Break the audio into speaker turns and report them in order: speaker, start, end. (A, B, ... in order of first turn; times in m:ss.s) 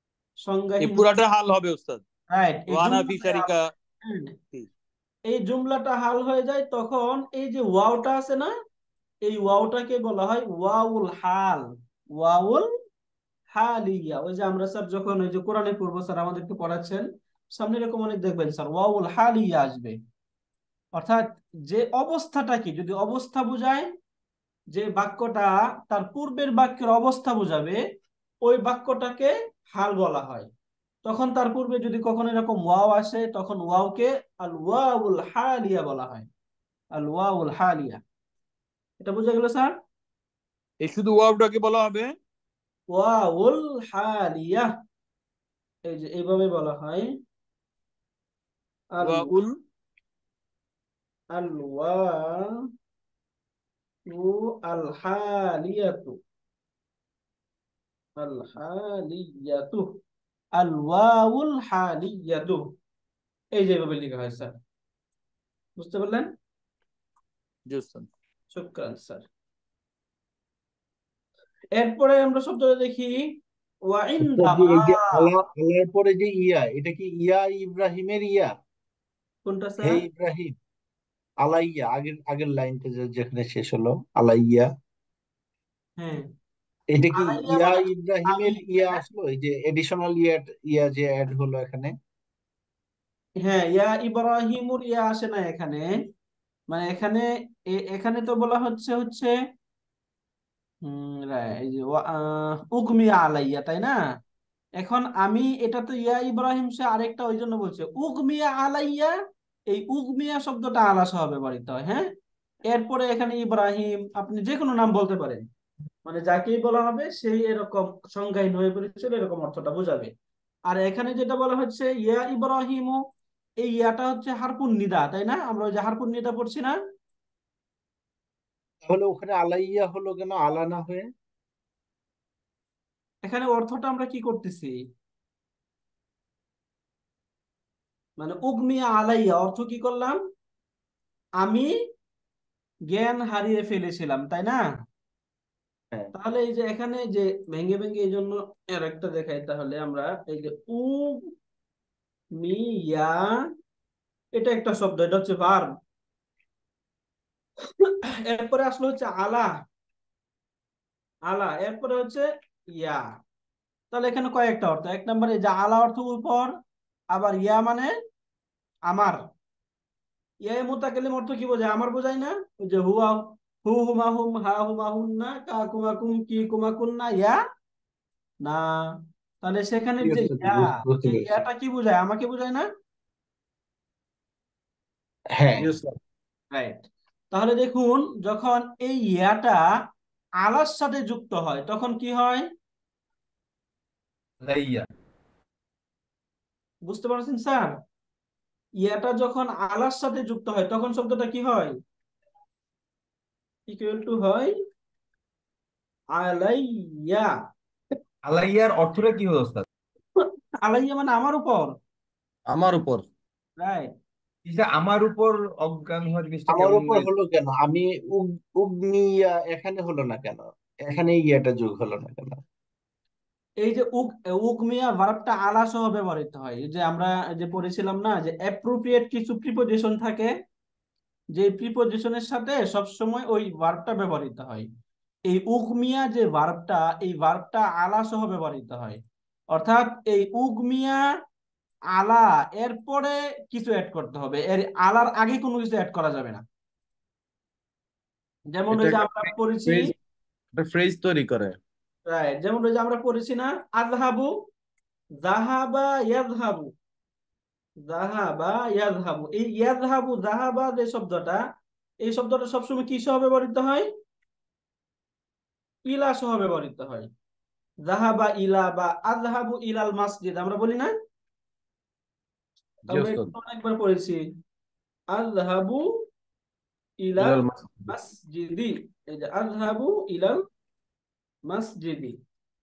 0:00.4-0:01.0 A
0:00.8-0:02.0 B
0:02.3-0:03.5 A
0:02.7-0:03.7 B
0:04.0-0:04.4 A
0:05.3-0:08.5 A
0:09.2-0:11.6 A
0:12.2-0:12.6 A
0:13.5-0:20.0 A
0:20.9-0:23.9 A
0:24.7-0:27.8 A
0:28.4-0:30.5 A
0:31.0-0:36.3 A
0:36.9-0:38.0 A
0:39.0-0:39.7 A
0:40.8-0:42.1 B
0:42.9-0:44.7 A
0:45.9-0:47.1 A
0:49.0-0:49.4 A
0:49.0-0:49.6 B
0:51.3-0:52.5 A
0:54.1-0:56.2 A
0:58.2-1:00.0 A
1:00.6-1:02.6 A
1:03.6-1:04.5 A
1:05.8-1:06.3 A
1:07.7-1:08.1 B
1:08.5-1:09.3 A
1:11.8-1:13.2 A
1:13.9-1:15.3 A
1:14.2-1:18.5 C
1:19.4-1:20.0 A
1:19.8-1:20.5 C
1:21.4-1:24.7 C
1:26.0-1:26.2 A
1:26.9-1:31.9 C
1:27.1-1:29.0 A
1:33.4-1:35.9 A
1:36.7-1:39.3 A
1:40.8-1:44.0 A
1:44.8-1:49.1 A
1:49.7-1:52.0 A
1:52.7-1:55.4 A
1:56.0-2:00.1 A
2:00.7-2:03.0 A
2:03.6-2:06.8 A
2:08.8-2:11.1 C
2:13.2-2:14.8 A
2:18.2-2:20.2 A
2:21.4-2:21.7 A
2:22.9-2:24.6 A
2:26.1-2:31.2 A
2:32.4-2:33.2 A
2:34.4-2:35.7 A
2:37.8-2:39.5 A
2:41.3-2:43.0 A
2:43.9-2:46.5 A
2:47.1-2:47.9 A
2:48.9-2:49.2 A
2:50.4-2:57.4 A
2:59.4-3:02.7 A
3:00.0-3:01.4 C
3:05.3-3:05.7 C
3:05.6-3:05.8 D
3:06.5-3:09.6 A
3:10.4-3:12.4 A
3:14.4-3:14.8 E
3:16.9-3:17.7 A
3:18.8-3:21.7 A
3:23.7-3:24.5 A
3:26.2-3:27.3 A
3:28.2-3:29.6 E
3:30.2-3:31.7 A
3:32.5-3:33.0 D
3:33.6-3:33.9 A
3:34.4-3:37.1 E
3:36.5-3:42.4 C
3:43.6-3:50.3 A
3:51.3-3:54.7 A
3:55.3-3:59.0 A
3:59.5-4:01.0 A
4:01.9-4:06.4 A
4:08.5-4:09.9 A
4:08.7-4:09.8 D
4:10.6-4:11.6 D
4:12.1-4:14.3 A
4:15.2-4:16.7 A
4:17.9-4:21.4 A
4:22.0-4:23.9 A
4:25.9-4:27.1 A
4:27.8-4:30.9 A
4:32.9-4:33.3 D
4:32.9-4:34.2 A
4:35.1-4:35.8 A
4:37.0-4:40.4 A
4:37.2-4:37.7 D
4:41.5-4:42.1 A